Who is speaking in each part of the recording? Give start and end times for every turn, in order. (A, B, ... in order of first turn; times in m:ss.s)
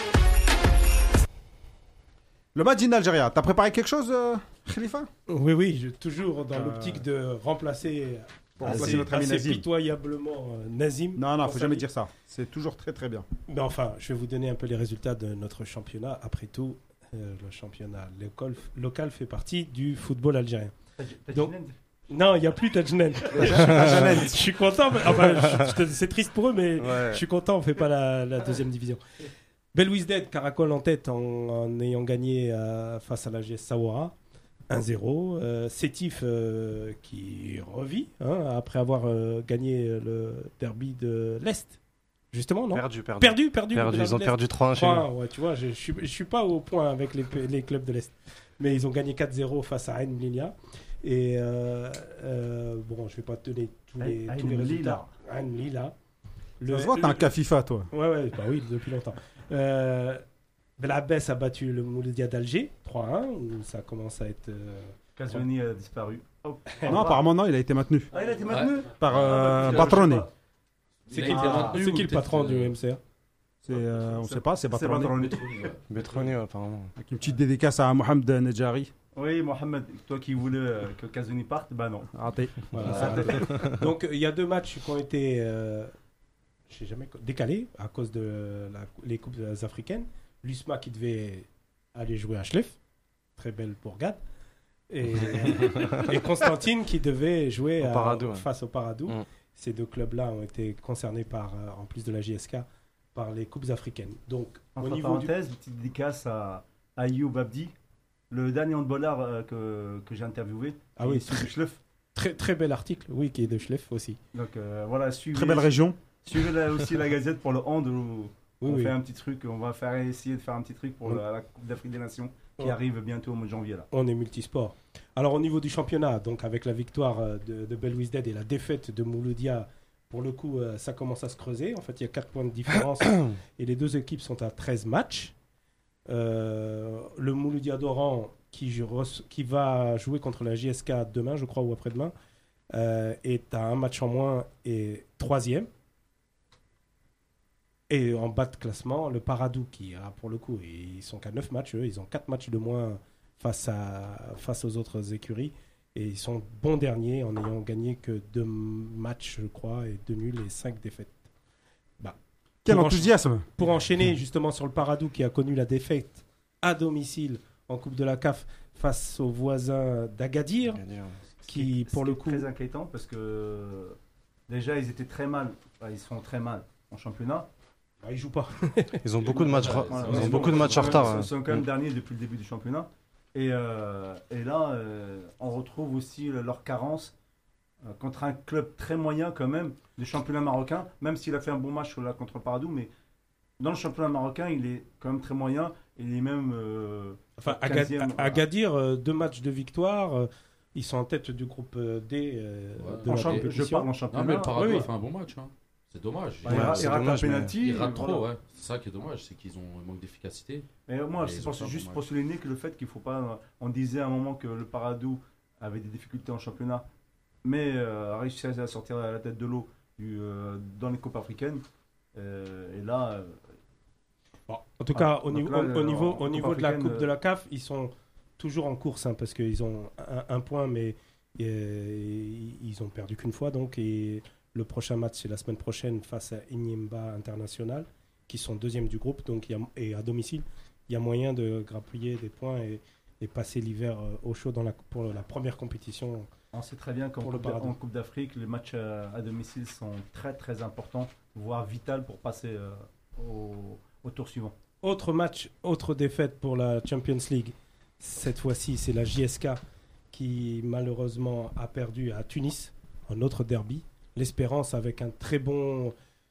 0:02.6-0:05.1 A
0:05.3-0:11.9 B
0:06.6-0:07.0 A
0:08.6-0:09.6 A
0:11.2-0:13.2 A
0:13.5-0:20.8 B
0:21.0-0:21.7 C
0:22.1-0:29.0 B
0:23.3-0:24.4 A
0:23.7-0:24.0 D
0:26.8-0:27.2 D
0:29.7-0:34.1 B
0:34.7-0:41.8 B
0:42.3-0:56.0 B
0:42.7-0:45.1 D
0:54.0-0:55.1 C
0:56.6-0:57.3 B
0:56.7-0:57.9 A
0:57.9-1:00.2 B
1:00.8-1:05.4 B
1:05.2-1:07.3 C
1:06.9-1:08.1 A
1:08.1-1:10.3 C
1:08.5-1:10.0 E
1:09.0-1:10.3 A
1:11.1-1:12.8 E
1:11.1-1:13.0 B
1:11.2-1:11.9 C
1:13.6-1:15.4 A
1:13.7-1:15.8 C
1:15.2-1:16.3 E
1:15.9-1:16.9 D
1:17.0-1:18.9 A
1:19.2-1:22.1 C
1:22.1-1:23.3 A
1:22.7-1:25.9 B
1:22.7-1:23.5 C
1:26.7-1:32.8 B
1:33.4-1:34.2 B
1:34.9-1:45.3 B
1:35.6-1:36.0 D
1:37.8-1:38.5 D
1:44.8-1:47.7 C
1:48.3-1:51.8 C
1:51.0-1:51.5 B
1:52.2-1:54.2 B
1:54.3-2:03.9 C
1:55.3-1:56.0 A
1:58.6-1:59.0 B
2:03.9-2:15.3 B
2:16.1-2:22.1 B
2:22.7-2:25.7 B
2:27.9-2:41.2 B
2:42.0-2:50.8 B
2:42.7-2:43.5 A
2:50.6-2:51.2 D
2:51.4-2:54.0 C
2:51.5-2:52.5 B
2:54.5-2:57.5 C
2:58.0-2:59.1 B
2:59.0-3:01.6 D
2:59.2-3:07.1 C
2:59.6-3:01.2 E
3:00.0-3:00.9 B
3:07.9-3:12.9 C
3:13.6-3:18.4 C
3:17.4-3:23.9 B
3:22.8-3:23.5 E
3:23.1-3:24.9 C
3:24.1-3:30.7 E
3:24.5-3:24.9 B
3:26.4-3:28.3 C
3:26.5-3:27.5 D
3:30.9-3:36.8 C
3:31.2-3:32.0 E
3:37.4-3:41.6 C
3:42.2-3:43.4 C
3:44.5-4:06.3 B
3:45.0-3:47.1 C
4:06.5-4:14.6 C
4:07.2-4:07.7 B
4:14.8-4:19.6 B
4:20.1-4:25.9 B